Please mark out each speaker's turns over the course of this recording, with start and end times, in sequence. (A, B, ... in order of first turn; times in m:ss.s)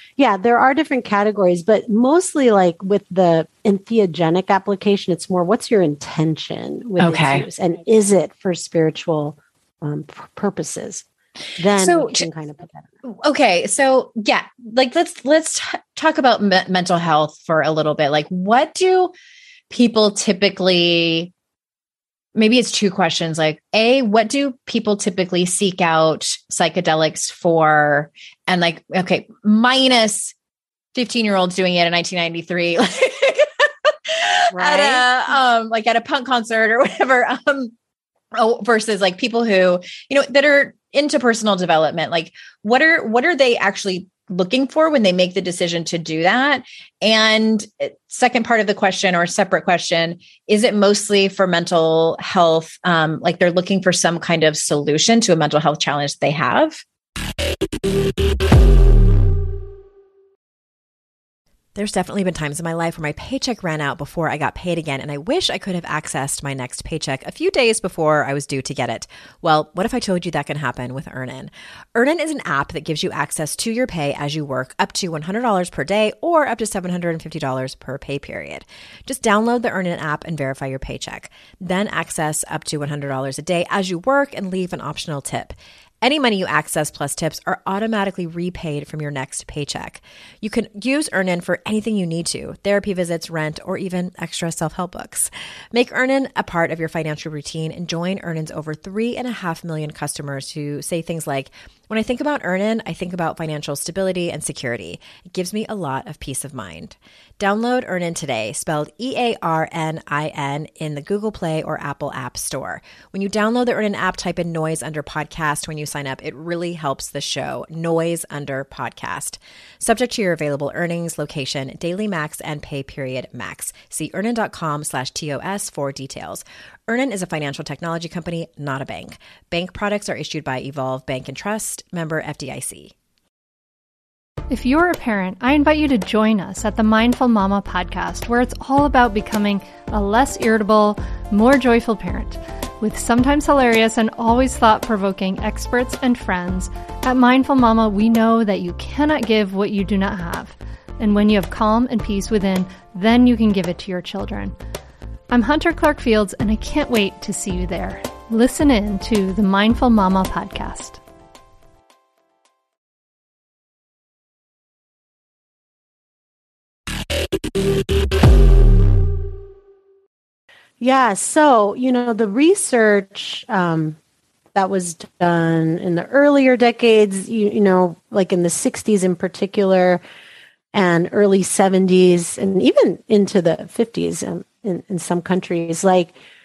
0:00.2-0:11.0 A
0:07.0-0:07.5 B
0:11.6-0:12.9 A
0:11.8-0:12.2 B
0:13.0-0:19.1 B
0:19.7-0:21.3 B
0:22.4-0:30.3 B
0:30.9-0:33.5 B
0:34.1-0:37.7 B
0:34.5-0:35.1 A
0:38.3-0:56.8 B
1:01.8-2:12.9 C
2:14.5-2:34.5 D
2:35.3-2:41.0 D
2:50.8-2:54.0 A
2:54.6-3:00.0 A
3:00.7-3:06.2 A